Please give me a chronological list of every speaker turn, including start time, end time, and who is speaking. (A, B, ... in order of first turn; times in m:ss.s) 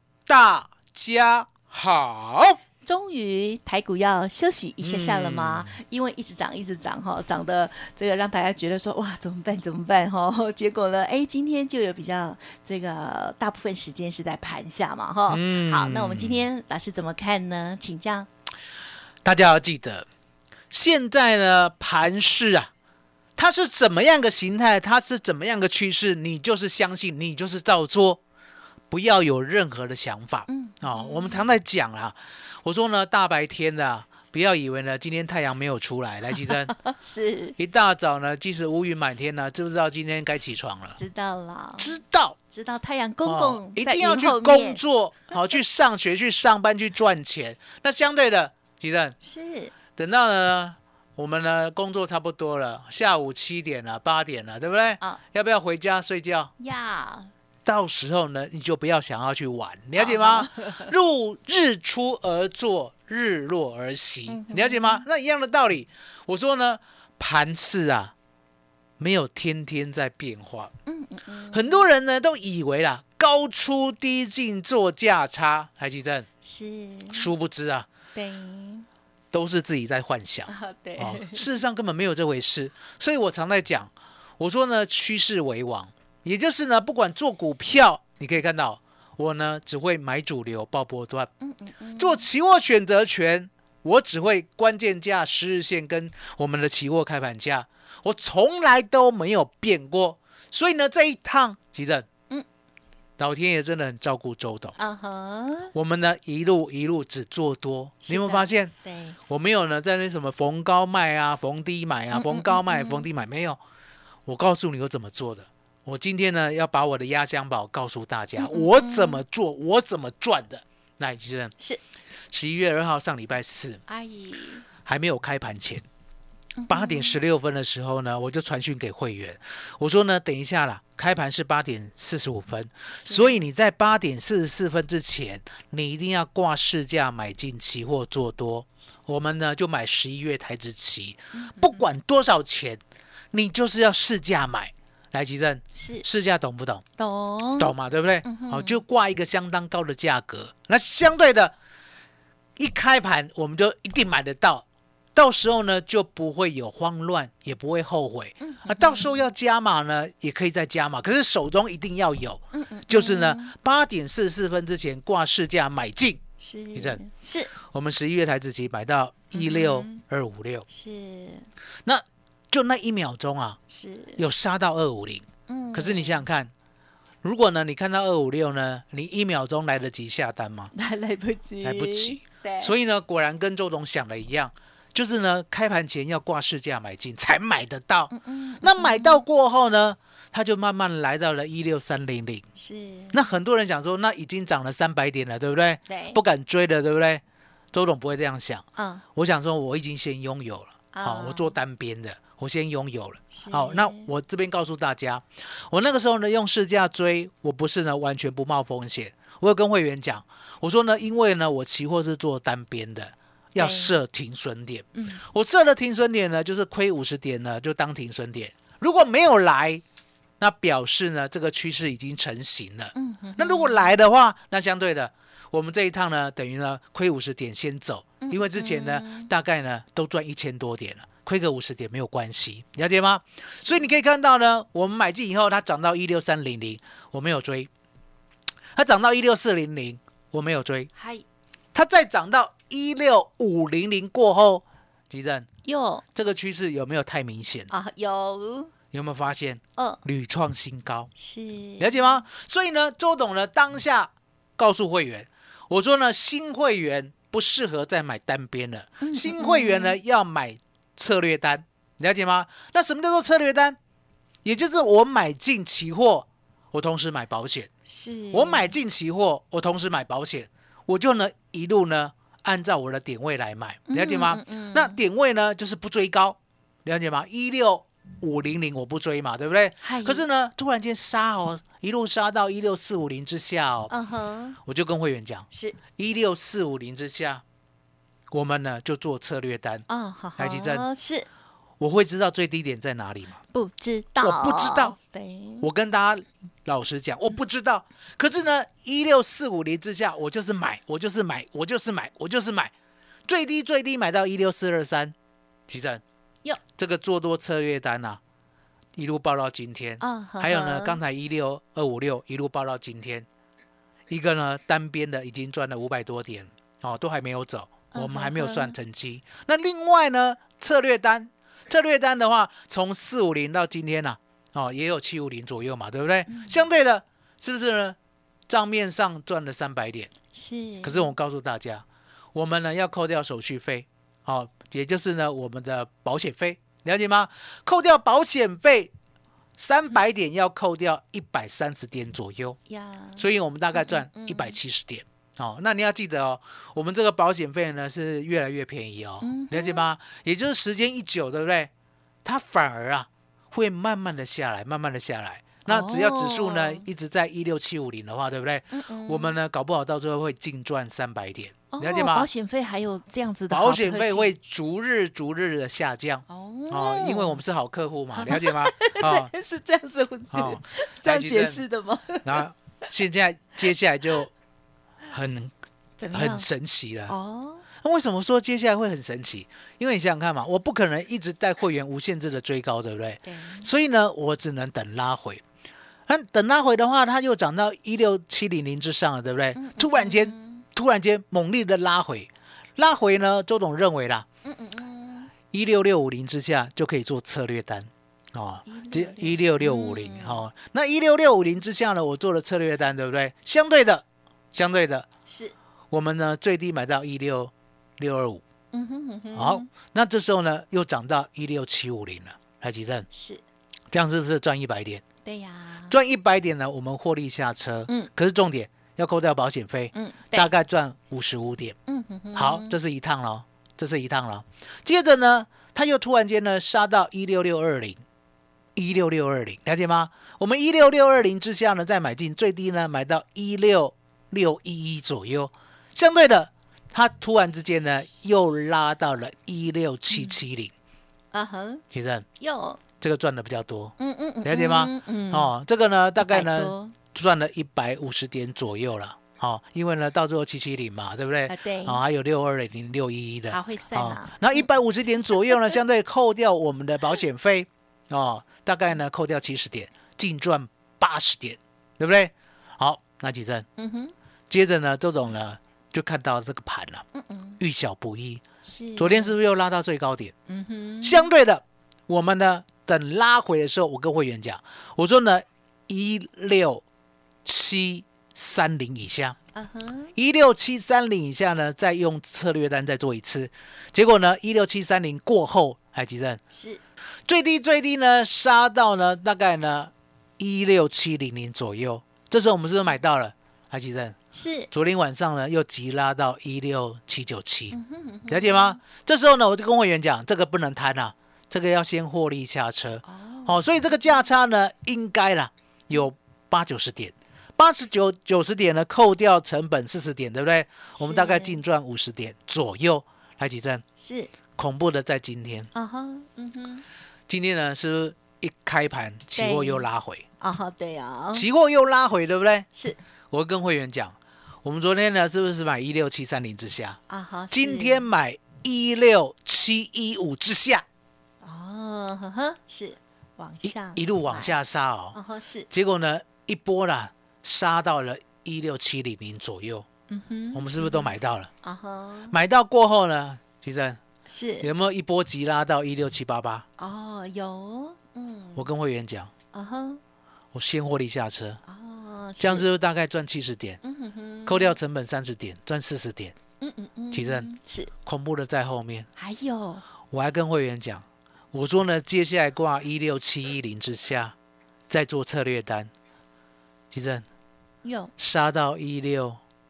0:00.3-0:02.6 A
0:02.8-0:18.3 B
0:04.8-0:05.8 A
0:15.3-0:16.4 A
0:19.2-0:20.1 A
0:20.7-0:22.7 A
0:23.4-0:28.2 A
0:28.9-0:36.7 A
0:30.5-0:31.5 B
0:36.4-0:37.6 B
0:37.6-0:41.0 A
0:41.0-0:42.0 B
0:41.8-0:42.4 A
0:42.5-0:44.8 B
0:43.2-0:49.1 A
0:49.2-0:49.7 B
0:50.0-0:56.5 A
0:56.6-0:57.3 B
0:57.6-1:08.1 A
1:00.0-1:00.9 B
1:04.3-1:05.0 B
1:09.0-1:10.7 A
1:10.9-1:11.8 B
1:11.5-1:16.3 A
1:16.4-1:17.3 B
1:17.1-1:17.9 A
1:18.1-1:18.9 B
1:19.3-1:31.3 A
1:20.5-1:21.4 B
1:31.4-1:32.2 B
1:32.0-1:42.0 A
1:43.2-1:44.8 A
1:44.8-1:45.7 B
1:45.7-1:48.7 A
1:48.0-1:49.2 B
1:49.3-1:53.6 A
1:52.1-1:53.0 B
1:54.2-2:01.5 A
1:58.4-1:59.2 B
2:02.3-2:03.8 A
2:03.9-2:04.6 B
2:04.8-2:05.8 A
2:06.6-2:07.2 B
2:06.7-2:22.8 A
2:13.0-2:13.4 B
2:21.3-2:21.8 B
2:23.3-2:26.8 A
2:25.8-2:26.0 B
2:27.0-2:27.7 B
2:27.6-2:31.5 A
2:28.2-2:28.8 B
2:32.6-2:46.2 A
2:38.4-2:39.2 B
2:42.5-2:43.5 B
2:46.4-2:47.5 B
2:46.7-2:47.0 A
2:47.7-2:50.6 A
2:49.3-2:50.0 B
2:50.7-2:51.5 B
2:51.8-2:53.6 A
2:53.7-2:54.2 B
2:54.2-2:56.5 A
2:55.5-2:56.2 B
2:57.2-3:00.7 A
3:00.7-3:02.7 B
3:01.6-3:12.4 A
3:08.1-3:09.2 B
3:12.6-3:13.2 B
3:13.1-3:17.2 A
3:15.9-3:16.2 B
3:17.7-3:39.8 A
3:18.8-3:19.0 B
3:20.9-3:21.5 B
3:23.3-3:24.1 B
3:33.6-3:34.0 B
3:34.9-3:35.2 B
3:40.4-3:57.7 A
3:42.9-3:43.9 B
3:48.2-3:49.3 B
3:53.5-3:54.0 B
3:58.7-4:00.9 A
4:01.0-4:01.2 B
4:01.7-4:05.4 A
4:05.6-4:06.0 B
4:06.1-4:07.7 A
4:07.7-4:08.7 B
4:08.9-4:11.1 A
4:11.2-4:12.1 B
4:11.8-4:23.8 A
4:19.0-4:20.0 B
4:24.4-4:27.7 A
4:27.8-4:28.8 B
4:28.3-4:43.9 A
4:33.9-4:35.0 B
4:39.8-4:40.2 B
4:43.9-4:44.6 B
4:44.6-4:47.4 A
4:45.5-4:45.8 B
4:48.3-4:49.8 A
4:49.9-4:51.3 B
4:50.4-4:50.8 A
4:51.8-4:53.4 A
4:53.5-4:55.7 B
4:54.2-4:55.0 A
4:55.6-5:02.7 A
5:03.3-5:05.1 A
5:05.7-5:06.0 A
5:06.8-5:08.2 A
5:09.0-5:13.3 A
5:10.0-5:11.0 B
5:14.1-5:28.0 A
5:17.9-5:18.7 B
5:26.3-5:26.6 B
5:28.5-5:30.1 A
5:30.3-5:31.1 B
5:30.8-5:38.9 A
5:39.6-5:42.6 A
5:42.7-5:44.6 B
5:43.2-5:51.7 A
5:49.2-5:49.9 B
5:52.2-6:02.3 A
5:55.6-5:56.8 B
5:58.7-5:59.3 B
6:01.7-6:04.3 B
6:03.5-6:09.3 A
6:06.3-6:07.4 B
6:08.2-6:12.4 B
6:10.3-6:11.6 A
6:12.2-6:14.3 A
6:15.1-6:15.5 A
6:16.0-6:16.5 B
6:16.1-6:17.1 A
6:17.1-6:17.6 B
6:17.8-6:25.4 A
6:23.2-6:23.7 B
6:26.1-6:34.2 A
6:29.6-6:30.6 B
6:34.4-6:35.3 B
6:35.5-6:45.0 A
6:38.6-6:40.4 B
6:45.3-6:45.5 B
6:45.9-6:48.4 A
6:48.7-6:49.7 B
6:49.3-6:53.1 A
6:53.1-6:53.4 B
6:53.9-6:55.0 A
6:55.2-6:55.9 B
6:55.9-7:01.8 A
6:59.9-7:00.5 B
7:01.9-7:02.7 B
7:02.3-7:08.0 A
7:08.8-7:20.7 A
7:20.1-7:20.4 B
7:21.3-7:21.8 B
7:21.9-7:22.2 A
7:22.4-7:22.8 B
7:23.0-7:43.6 A
7:24.0-7:25.5 B
7:26.2-7:26.9 B
7:31.5-7:32.0 B
7:33.5-7:34.7 B
7:43.8-7:44.1 B
7:44.5-7:47.0 A
7:47.1-7:47.6 B
7:47.6-7:48.4 A
7:48.6-7:49.3 B
7:49.0-7:50.3 A
7:50.5-7:51.3 B
7:51.0-7:56.8 A
7:57.4-7:59.4 A
7:59.5-8:00.1 B
8:00.2-8:06.4 A
8:06.5-8:06.8 B
8:07.3-8:14.2 A
8:14.3-8:14.7 B
8:14.7-8:17.8 A
8:17.7-8:18.8 B
8:18.3-8:33.8 A
8:23.1-8:23.6 B
8:31.0-8:31.6 B
8:34.0-8:34.3 B
8:34.6-8:35.7 A
8:35.7-8:36.8 B
8:37.3-8:40.2 A
8:39.4-8:39.8 B
8:40.4-8:41.4 B
8:41.3-8:42.7 A
8:42.7-8:43.0 B
8:43.3-8:47.0 A
8:47.1-8:48.1 B
8:47.5-8:50.8 A
8:51.4-8:54.5 B
8:53.6-8:55.2 A
8:55.1-8:55.7 B
8:55.7-8:59.8 A
9:00.1-9:02.3 B
9:00.5-9:01.5 A
9:02.3-9:04.0 A
9:04.3-9:04.7 B
9:04.6-9:06.6 A
9:06.8-9:08.7 B
9:08.6-9:09.3 A
9:09.5-9:10.0 B
9:10.5-9:11.6 A
9:11.6-9:12.7 B
9:12.4-9:13.8 A
9:13.8-9:14.8 B
9:14.4-9:16.3 A
9:16.6-9:17.9 B
9:17.1-9:17.5 A
9:18.0-9:19.1 A
9:19.2-9:19.8 B
9:20.1-9:24.3 A
9:24.9-9:25.9 A
9:26.9-9:27.2 A
9:27.8-9:28.1 B
9:28.2-9:29.4 A